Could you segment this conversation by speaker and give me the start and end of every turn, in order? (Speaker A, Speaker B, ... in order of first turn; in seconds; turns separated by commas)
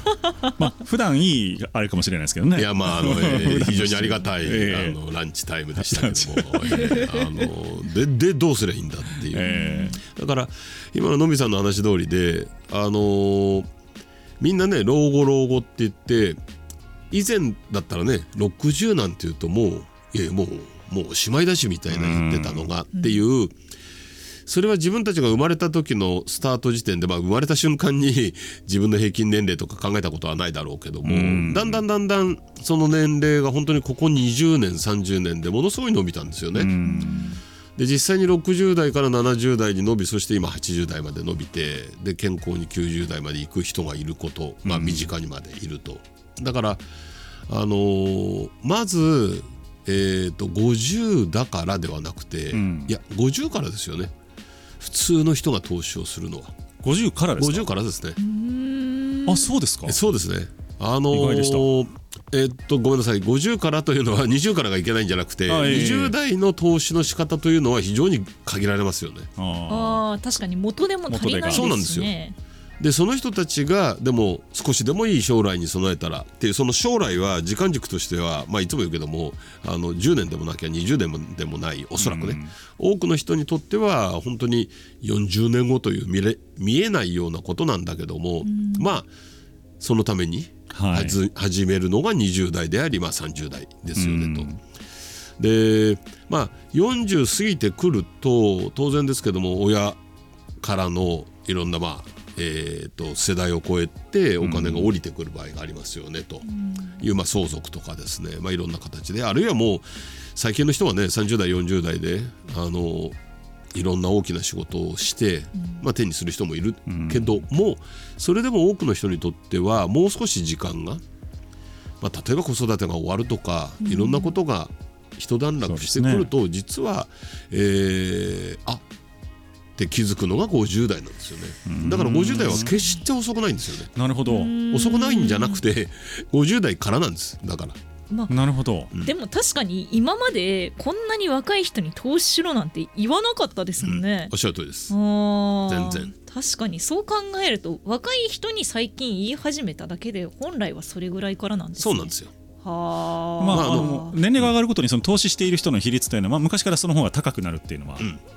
Speaker A: 0.6-5.0, Speaker B: 2.5-13.7, Speaker A: 5.8-7.2, Speaker C: 6.8-7.2, Speaker A: 9.3-10.0, Speaker C: 9.4-10.0, Speaker B: 14.4-16.4, Speaker B: 17.1-23.5, Speaker A: 21.9-22.7, Speaker B: 24.4-36.7, Speaker A: 31.0-31.8, Speaker A: 36.5-37.4, Speaker C: 36.8-37.4, Speaker B: 37.8-46.8, Speaker A: 44.6-45.1, Speaker B: 47.5-54.1, Speaker A: 52.5-52.9, Speaker B: 54.8-56.5, Speaker A: 56.8-57.7, Speaker B: 57.4-58.2, Speaker C: 58.2-59.6, Speaker A: 59.2-60.0, Speaker B: 59.9-69.3, Speaker A: 61.1-61.7, Speaker A: 65.5-66.1, Speaker A: 69.4-70.0, Speaker C: 69.7-72.4, Speaker A: 71.1-71.7, Speaker B: 71.5-72.1, Speaker B: 72.8-89.1, Speaker A: 82.0-82.5, Speaker C: 88.4-88.9, Speaker B: 89.8-94.5, Speaker A: 90.7-91.2, Speaker A: 93.9-94.6, Speaker B: 95.4-100.0, Speaker B: 100.6-106.5, Speaker A: 104.4-104.9, Speaker C: 106.5-107.0, Speaker B: 107.0-113.2, Speaker B: 113.7-121.0, Speaker A: 116.9-117.4, Speaker B: 122.0-128.8, Speaker C: 123.8-124.3, Speaker A: 125.6-126.3, Speaker B: 129.8-133.9, Speaker A: 131.7-132.7, Speaker A: 133.9-134.5, Speaker C: 134.3-135.6, Speaker B: 134.7-137.8, Speaker A: 138.3-138.9, Speaker C: 139.0-144.3, Speaker B: 143.8-144.9, Speaker C: 144.9-154.2, Speaker B: 145.7-146.1, Speaker B: 151.8-152.3, Speaker A: 153.4-158.1, Speaker B: 153.5-154.5